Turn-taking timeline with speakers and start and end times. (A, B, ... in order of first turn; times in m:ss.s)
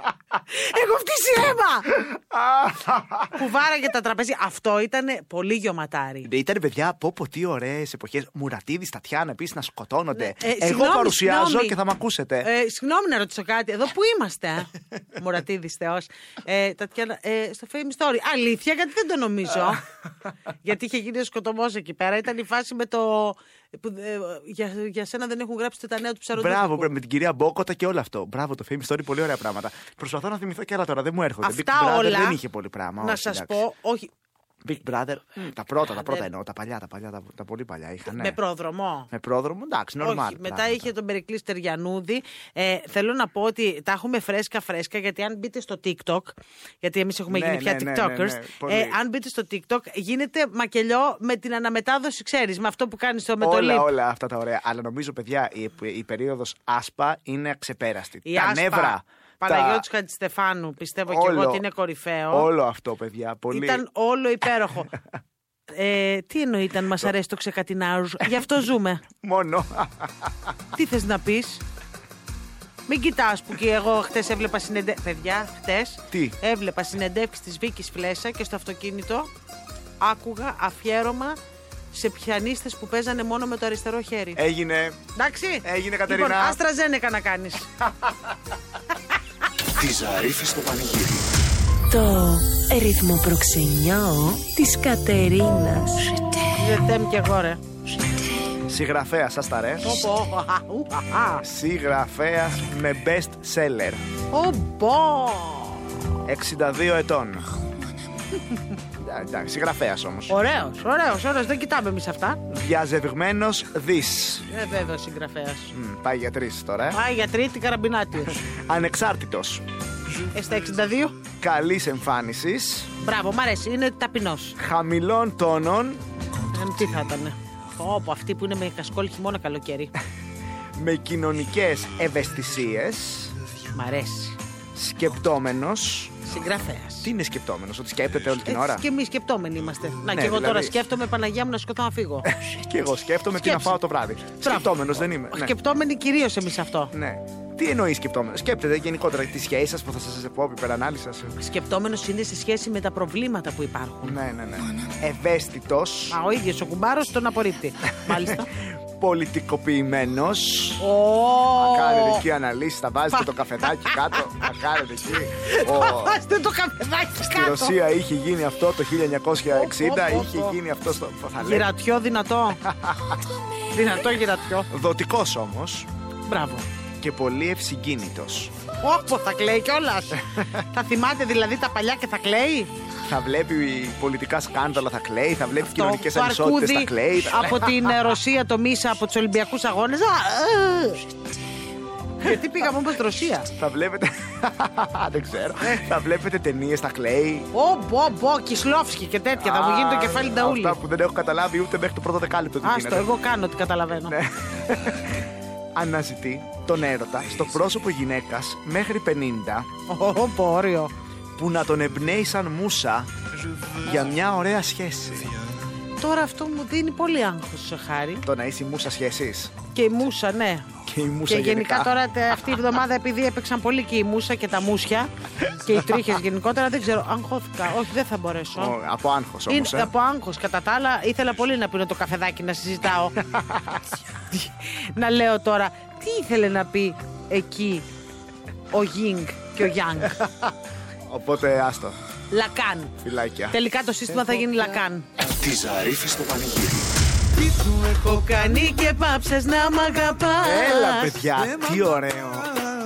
0:00.5-0:01.9 A
0:02.1-0:03.3 B
0:03.3-0:06.3 A
0:06.2-0:12.5 B
0:10.1-0:11.8 A
0:12.4-0:19.8 A
0:20.6-0:26.9 A
0:26.4-0:33.6 B
0:31.4-0:32.4 A
0:33.0-0:34.1 A
0:34.6-0:38.4 B
0:38.0-0:39.1 A
0:39.1-0:40.8 B
0:40.0-0:53.9 A
0:47.3-0:49.0 B
0:53.4-0:59.8 B
0:58.2-1:02.5 A
1:01.1-1:01.6 B
1:02.3-1:03.8 B
1:03.5-1:04.9 A
1:05.7-1:09.0 A
1:09.2-1:10.5 B
1:10.7-1:11.6 A
1:12.9-1:19.3 A
1:16.1-1:16.4 B
1:20.0-1:21.4 A
1:21.9-1:24.4 A
1:24.4-1:25.0 B
1:25.2-1:27.7 A
1:25.6-1:26.6 B
1:29.8-1:31.3 C
1:31.9-1:36.2 D
1:36.6-1:37.6 A
1:38.6-1:40.0 B
1:39.8-1:41.4 A
1:41.4-1:44.0 B
1:44.3-1:45.8 A
1:46.2-1:47.5 B
1:49.0-1:50.3 B
1:50.3-1:52.4 A
1:52.5-1:54.4 B
1:54.5-1:55.7 A
1:55.7-1:57.0 B
1:56.9-1:58.4 A
1:58.4-1:59.6 B
2:00.3-2:01.2 A
2:01.4-2:02.9 B
2:03.0-2:04.6 A
2:04.6-2:06.0 B
2:06.5-2:09.9 A
2:10.8-2:13.3 B
2:13.7-2:14.4 A
2:14.7-2:16.2 B
2:16.2-2:17.1 A
2:17.0-2:18.8 B
2:18.4-2:22.3 A
2:20.1-2:20.8 B
2:22.3-2:25.5 B
2:23.4-2:23.8 A
2:24.4-2:26.9 A
2:26.9-2:31.4 B
2:31.4-2:34.2 A
2:34.0-2:36.2 B
2:36.1-2:38.5 A
2:38.1-2:40.8 B
2:40.8-2:42.2 A
2:41.5-2:46.2 B
2:43.1-2:44.5 A
2:45.4-2:47.8 A
2:47.3-2:51.7 B
2:49.5-2:50.6 A
2:51.4-2:52.6 A
2:52.6-2:53.2 B
2:53.7-2:54.7 A
2:54.7-2:55.9 B
2:56.3-2:56.6 A
2:57.0-2:58.5 B
2:58.8-3:02.7 A
3:00.3-3:00.6 B
3:03.0-3:07.9 B
3:05.6-3:11.0 A
3:12.2-3:13.5 A
3:13.5-3:17.5 B
3:15.6-3:15.9 A
3:17.5-3:20.8 A
3:19.4-3:23.1 B
3:22.6-3:24.2 A
3:24.1-3:29.7 B
3:29.9-3:30.9 A
3:31.4-3:33.1 B
3:33.7-3:35.4 B
3:36.0-3:38.2 A
3:38.2-3:39.6 B
3:39.7-3:40.7 A
3:40.8-3:42.0 B
3:41.3-3:48.8 A
3:48.6-3:49.9 B
3:49.5-3:53.1 A
3:53.2-3:53.8 B
3:54.3-3:57.8 A
3:58.7-4:00.2 A
4:00.0-4:00.5 B
4:01.1-4:02.0 B
4:02.3-4:03.0 A
4:03.0-4:03.6 B
4:03.5-4:05.1 A
4:05.3-4:06.8 C
4:07.4-4:11.2 A
4:10.4-4:12.6 B